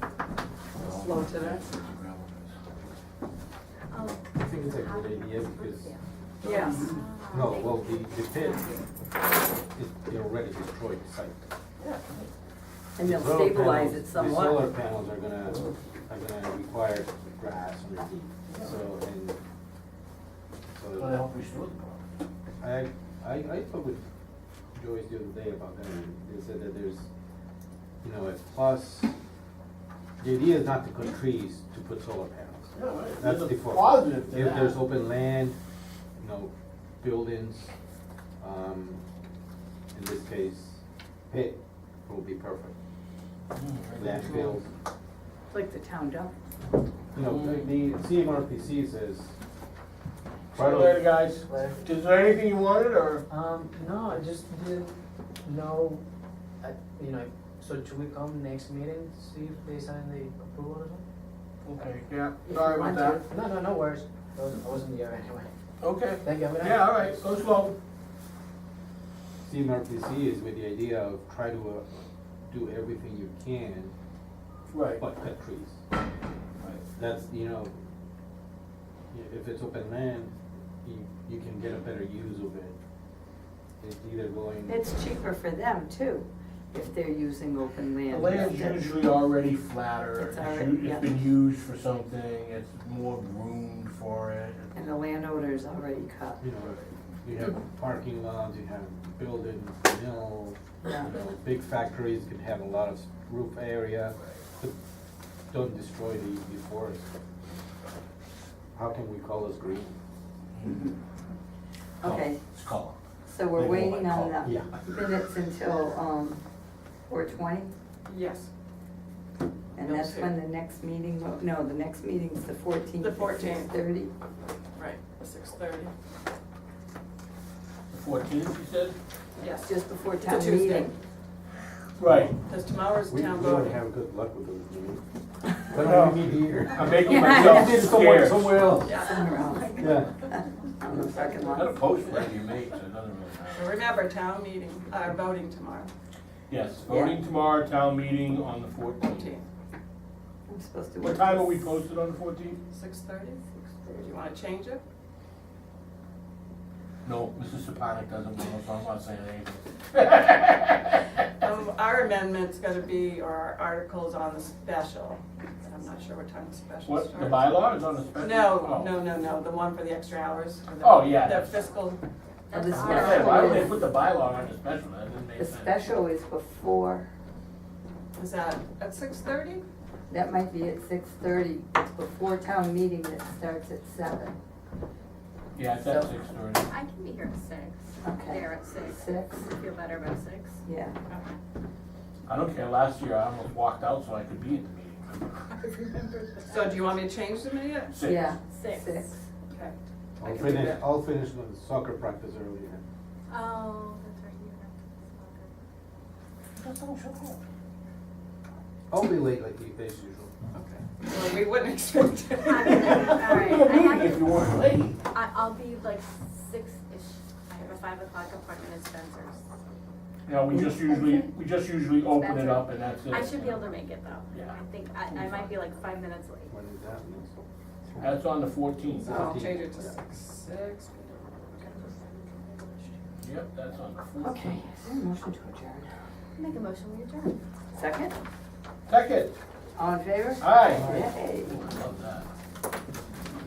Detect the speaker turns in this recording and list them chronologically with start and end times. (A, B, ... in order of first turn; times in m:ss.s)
0:00.8-0:02.5 A
0:01.0-0:01.7 B
0:03.9-0:06.0 C
0:04.4-0:05.9 D
0:06.4-0:07.1 A
0:06.4-0:06.8 E
0:06.7-0:08.9 C
0:07.3-0:08.6 D
0:09.7-0:11.4 D
0:11.8-0:12.3 A
0:13.0-0:14.7 E
0:13.0-0:19.4 D
0:18.5-0:18.8 A
0:20.7-0:21.2 D
0:21.0-0:22.1 A
0:22.6-0:24.0 D
0:24.8-0:27.1 D
0:28.0-0:29.1 D
0:30.2-0:35.6 D
0:32.8-0:34.8 A
0:36.2-0:37.7 D
0:38.4-0:39.0 D
0:39.9-0:42.8 D
0:43.5-0:44.6 A
0:44.0-0:44.6 D
0:45.5-0:46.3 E
0:47.1-0:49.3 D
0:47.2-0:47.7 A
0:50.5-0:53.2 A
0:50.5-0:51.0 D
0:51.4-0:51.9 F
0:53.3-0:56.0 F
0:56.6-1:01.0 F
1:01.6-1:03.2 A
1:02.4-1:03.2 E
1:03.2-1:05.5 F
1:05.8-1:07.8 A
1:06.2-1:07.2 F
1:09.4-1:11.9 D
1:12.5-1:13.9 D
1:14.7-1:15.0 A
1:15.0-1:15.8 D
1:17.0-1:17.8 D
1:19.1-1:22.8 D
1:23.8-1:24.8 D
1:24.7-1:28.9 E
1:28.1-1:34.7 A
1:30.2-1:31.2 E
1:34.8-1:36.4 E
1:36.4-1:44.7 D
1:36.6-1:36.9 A
1:40.8-1:41.1 E
1:45.5-1:47.1 D
1:48.8-1:49.9 D
1:50.6-1:50.8 A
1:50.6-1:51.0 E
1:52.0-1:52.4 E
1:52.0-1:53.0 A
1:53.3-1:56.4 E
1:53.6-1:54.9 A
1:54.4-1:54.7 D
1:57.1-1:57.7 E
1:58.1-1:58.5 B
1:59.8-2:04.1 E
1:59.8-2:00.3 B
2:03.0-2:03.7 B
2:04.8-2:05.9 B
2:07.9-2:09.0 A
2:09.4-2:10.9 B
2:09.6-2:10.9 E
2:12.0-2:12.4 A
2:12.1-2:12.3 D
2:12.4-2:13.8 B
2:13.1-2:15.0 D
2:15.7-2:19.0 D
2:15.8-2:16.2 A
2:16.7-2:18.7 A
2:17.0-2:17.8 E
2:18.8-2:19.1 B
2:19.0-2:21.8 E
2:19.6-2:20.0 C
2:19.8-2:20.1 D
2:21.5-2:23.8 A
2:23.5-2:25.9 B
2:26.5-2:29.3 A
2:26.9-2:27.2 E
2:29.0-2:29.5 B
2:30.5-2:31.6 E
2:31.0-2:32.6 A
2:32.7-2:34.8 B
2:37.0-2:41.0 A
2:41.4-2:52.0 B
2:46.8-2:49.0 A
2:50.8-2:51.6 A
2:52.5-2:53.8 C
2:52.5-2:53.8 E
2:52.8-2:55.8 A
2:55.4-2:57.1 E
2:58.2-2:59.6 B
3:00.1-3:04.4 E
3:05.6-3:06.7 A
3:05.8-3:06.1 E
3:06.7-3:10.6 C
3:08.0-3:09.5 E
3:10.6-3:11.0 E
3:12.3-3:15.4 A
3:15.6-3:17.0 C
3:16.5-3:17.9 B
3:17.9-3:18.3 A
3:18.0-3:19.2 E
3:18.5-3:19.1 C
3:19.5-3:20.8 B
3:20.2-3:22.8 D
3:23.3-3:25.5 C
3:26.6-3:27.4 A
3:28.9-3:30.3 D
3:30.5-3:33.2 B
3:32.5-3:34.3 C
3:32.6-3:35.0 A
3:35.1-3:39.4 C
3:40.3-3:43.8 A
3:40.6-3:40.9 E
3:42.1-3:46.5 C
3:44.3-3:44.6 A
3:45.2-3:45.4 A
3:46.5-3:47.3 D
3:48.0-3:49.3 A
3:49.0-3:51.9 B
3:49.0-3:50.0 D
3:51.6-3:53.0 C
3:53.2-3:54.6 A
3:54.2-3:55.9 E
3:56.4-3:57.4 C
3:57.7-3:58.1 E
3:58.9-3:59.4 A
3:59.8-4:01.6 E
4:00.4-4:02.3 A
4:00.8-4:01.0 D